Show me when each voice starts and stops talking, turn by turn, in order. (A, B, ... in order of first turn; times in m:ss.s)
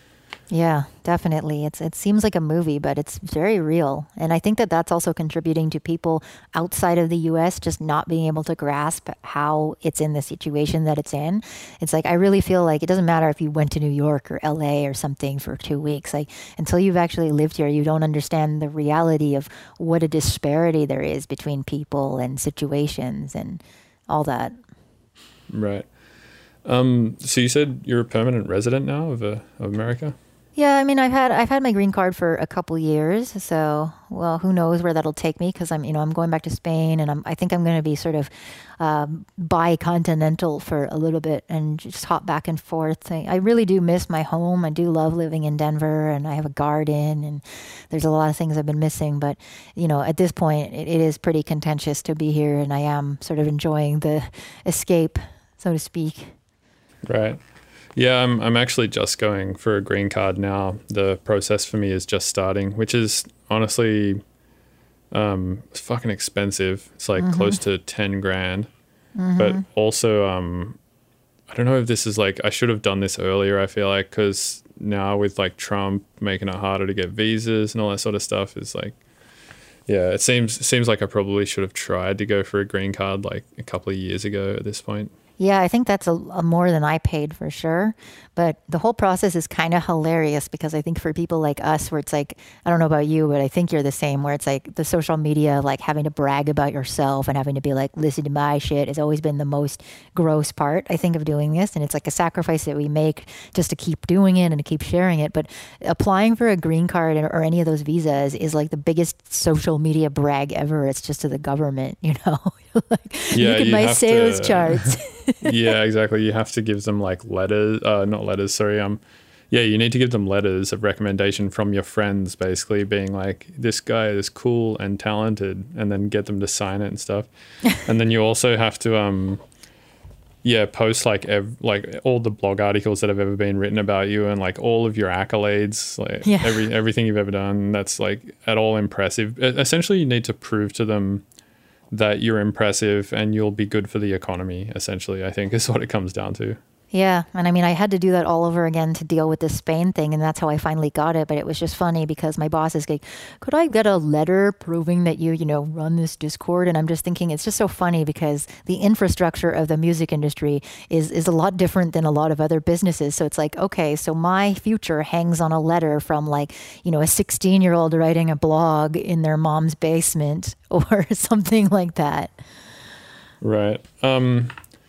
0:00.5-0:24.6 A
0:25.5-0:25.9 B
0:26.6-0:30.2 B
0:30.6-0:56.3 A
0:57.1-0:57.4 B
0:58.0-1:04.2 B
1:05.1-1:08.7 B
1:07.2-1:07.6 A
1:09.2-1:09.6 A
1:09.4-1:10.8 B
1:11.5-1:19.0 B
1:19.9-1:25.1 B
1:25.4-1:55.6 A
1:53.3-2:07.3 B
2:07.8-2:09.4 B
2:10.4-2:21.2 B
2:16.2-2:16.6 A
2:21.9-2:26.6 B
2:26.9-2:52.3 A
2:53.4-2:54.6 B